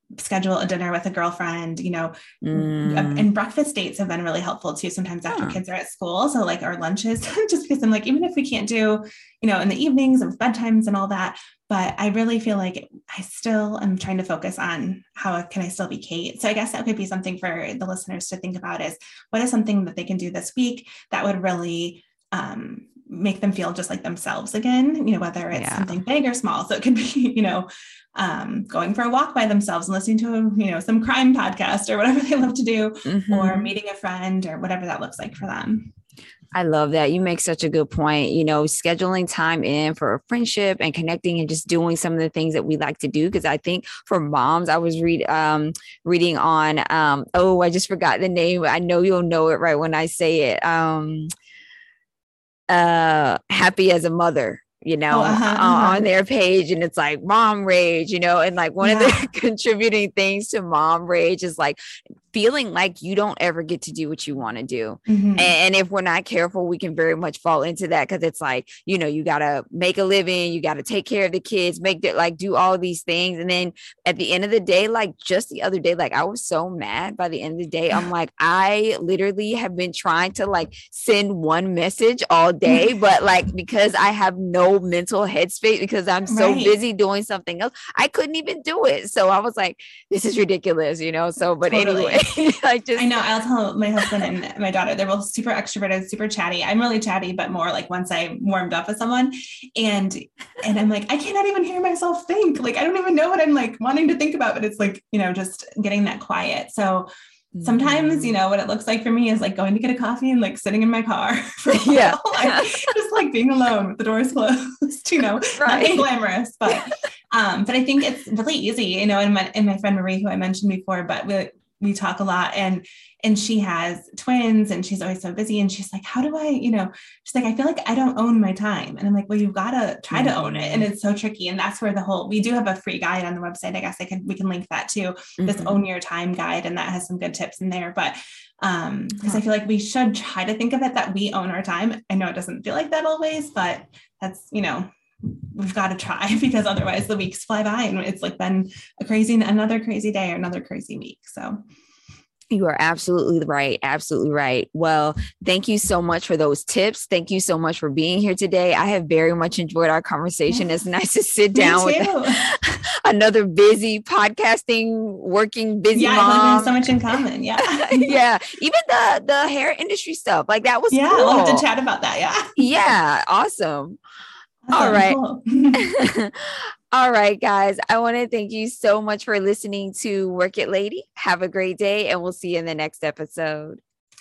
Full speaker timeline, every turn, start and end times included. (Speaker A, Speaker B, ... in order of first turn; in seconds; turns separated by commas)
Speaker A: 0.2-35.9, Speaker B: 2.4-3.3, Speaker B: 5.3-5.6, Speaker B: 25.5-26.0, Speaker B: 33.0-33.7, Speaker B: 36.5-51.3, Speaker B: 52.7-61.8, Speaker A: 55.1-56.0, Speaker A: 58.8-59.3, Speaker B: 62.3-93.1, Speaker A: 65.1-65.5, Speaker A: 86.3-86.8, Speaker A: 91.6-92.2, Speaker A: 93.0-107.1, Speaker B: 107.5-108.3, Speaker A: 107.6-151.6, Speaker B: 111.7-112.9, Speaker B: 115.5-116.1, Speaker B: 130.1-130.9, Speaker B: 135.4-135.8, Speaker B: 139.2-139.4, Speaker B: 152.5-162.5, Speaker A: 161.5-162.4, Speaker B: 163.0-166.8, Speaker A: 165.9-168.2, Speaker B: 167.7-171.7, Speaker A: 170.9-172.5, Speaker B: 172.6-174.0, Speaker A: 174.6-175.8, Speaker B: 174.7-175.2, Speaker B: 175.8-183.8